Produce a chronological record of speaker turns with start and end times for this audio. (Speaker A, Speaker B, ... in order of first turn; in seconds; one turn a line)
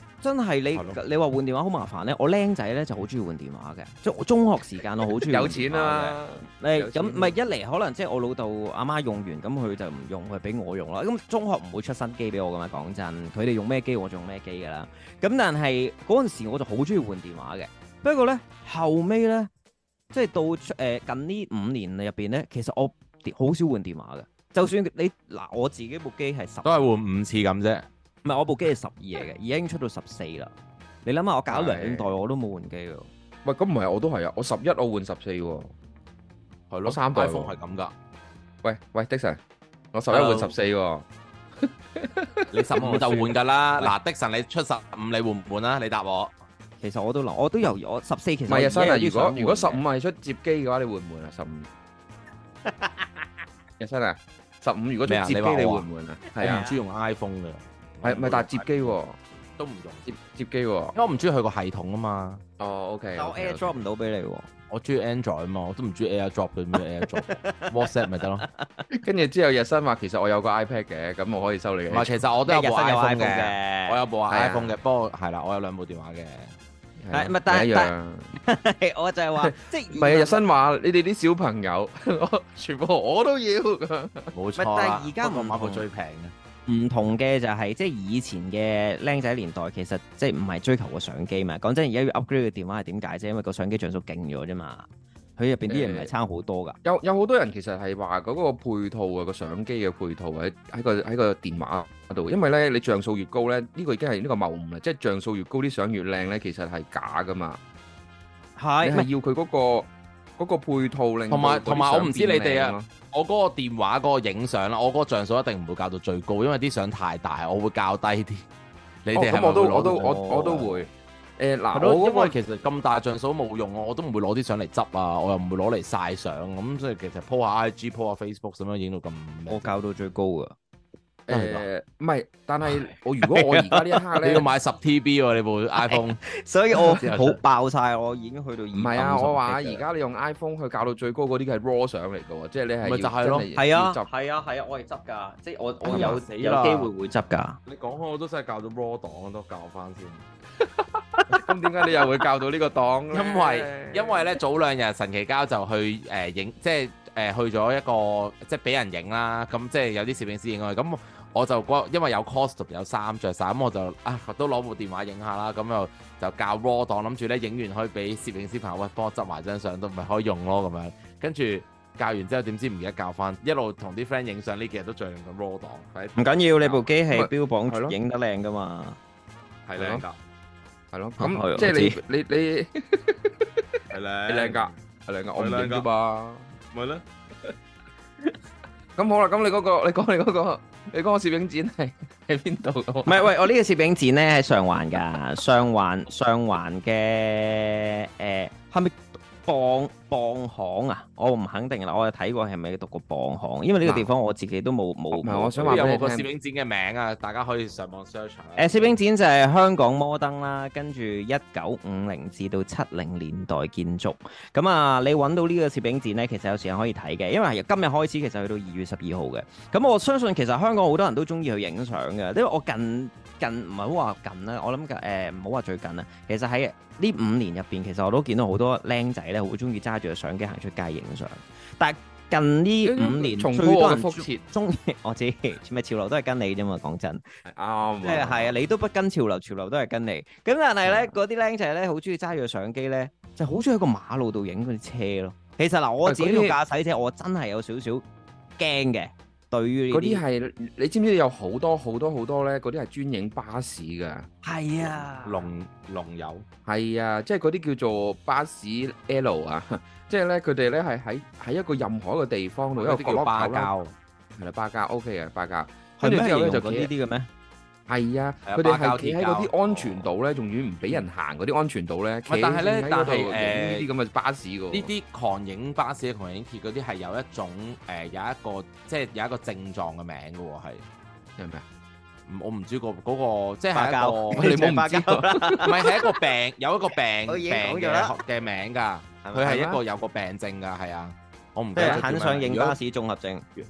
Speaker A: 0.2-19.5
Speaker B: 0.8-1.0
Speaker C: 5.3-7.3
Speaker A: 20.1-26.7
Speaker B: 26.6-27.9
Speaker A: 28.2-30.5
Speaker A: 31.1-33.1
Speaker C: 31.5-32.1
Speaker C: 33.4-35.7
Speaker B: 36.7-37.9
Speaker C: 36.9-37.5
Speaker C: 38.6-39.4
Speaker C: 39.9-41.0
Speaker B: 40.1-40.5
Speaker C: 41.6-44.0
Speaker B: 42.5-46.3
Speaker A: 46.8-49.8
Speaker C: 48.5-51.7
Speaker A: 52.6-53.3
Speaker C: 53.8-56.7
Speaker B: 55.1-55.9
Speaker A: 56.2-56.8
Speaker B: 56.4-59.0
Speaker C: 58.0-59.2
Speaker B: 59.6-60.1
Speaker C: 60.1-61.0
Speaker B: 61.0-62.4
Speaker C: 62.6-63.8
Speaker A: 63.2-64.5
Speaker B: 64.7-68.5
Speaker A: 67.0-67.9
Speaker A: 68.4-68.8
Speaker C: 68.9-72.2
Speaker B: 71.9-76.5
Speaker A: 72.5-74.0
Speaker C: 74.3-74.8
Speaker C: 77.0-78.3
Speaker A: 77.1-80.4
Speaker C: 79.4-84.3
Speaker B: 84.3-86.3
Speaker A: 84.6-85.8
Speaker A: 86.7-94.9
Speaker A: 95.4-96.8
Speaker C: 95.7-96.1
Speaker C: 96.8-107.6
Speaker A: 108.6-109.1
Speaker C: 108.8-112.9
Speaker B: 111.3-118.5
Speaker B: 119.0-120.6
Speaker C: 119.1-122.4
Speaker A: 120.3-120.7
Speaker B: 121.7-129.8
Speaker A: 129.5-130.6
Speaker C: 131.3-134.5
Speaker B: 131.3-131.7
Speaker A: 133.2-134.0
Speaker B: 134.2-136.2
Speaker A: 135.8-139.8
Speaker B: 136.9-137.4
Speaker C: 138.7-144.1
Speaker B: 142.8-143.5
Speaker A: 143.6-147.6
Speaker C: 145.9-146.2
Speaker B: 145.9-146.9
Speaker B: 147.7-150.2
Speaker C: 151.3-154.4
Speaker B: 153.1-176.8
Speaker A: 176.2-179.0
Speaker C: 177.1-178.0
Speaker B: 179.7-180.2
Speaker C: 179.8-180.1
Speaker C: 180.9-186.5
Speaker A: 181.2-182.0
Speaker B: 183.9-184.8
Speaker B: 185.4-185.8
Speaker B: 186.7-187.0
Speaker C: 189.0-193.3
Speaker A: 193.1-205.9
Speaker C: 205.1-206.3
Speaker B: 205.6-209.0
Speaker A: 208.6-237.2
Speaker C: 232.8-234.4
Speaker C: 237.4-238.6
Speaker A: 238.0-248.0
Speaker C: 240.9-241.1
Speaker C: 246.1-246.6
Speaker A: 248.6-250.2
Speaker C: 249.9-254.3
Speaker A: 254.4-255.5
Speaker B: 255.2-256.5
Speaker C: 256.7-263.7
Speaker B: 262.8-263.9
Speaker C: 264.4-266.9
Speaker A: 266.0-267.3
Speaker C: 267.9-274.9
Speaker B: 268.5-270.1
Speaker B: 272.3-273.9
Speaker B: 274.7-280.8
Speaker C: 281.4-281.6
Speaker B: 282.3-284.7
Speaker A: 283.7-286.1
Speaker C: 284.3-285.8
Speaker B: 285.6-292.8
Speaker A: 287.3-288.2
Speaker A: 289.2-289.8
Speaker A: 291.8-293.5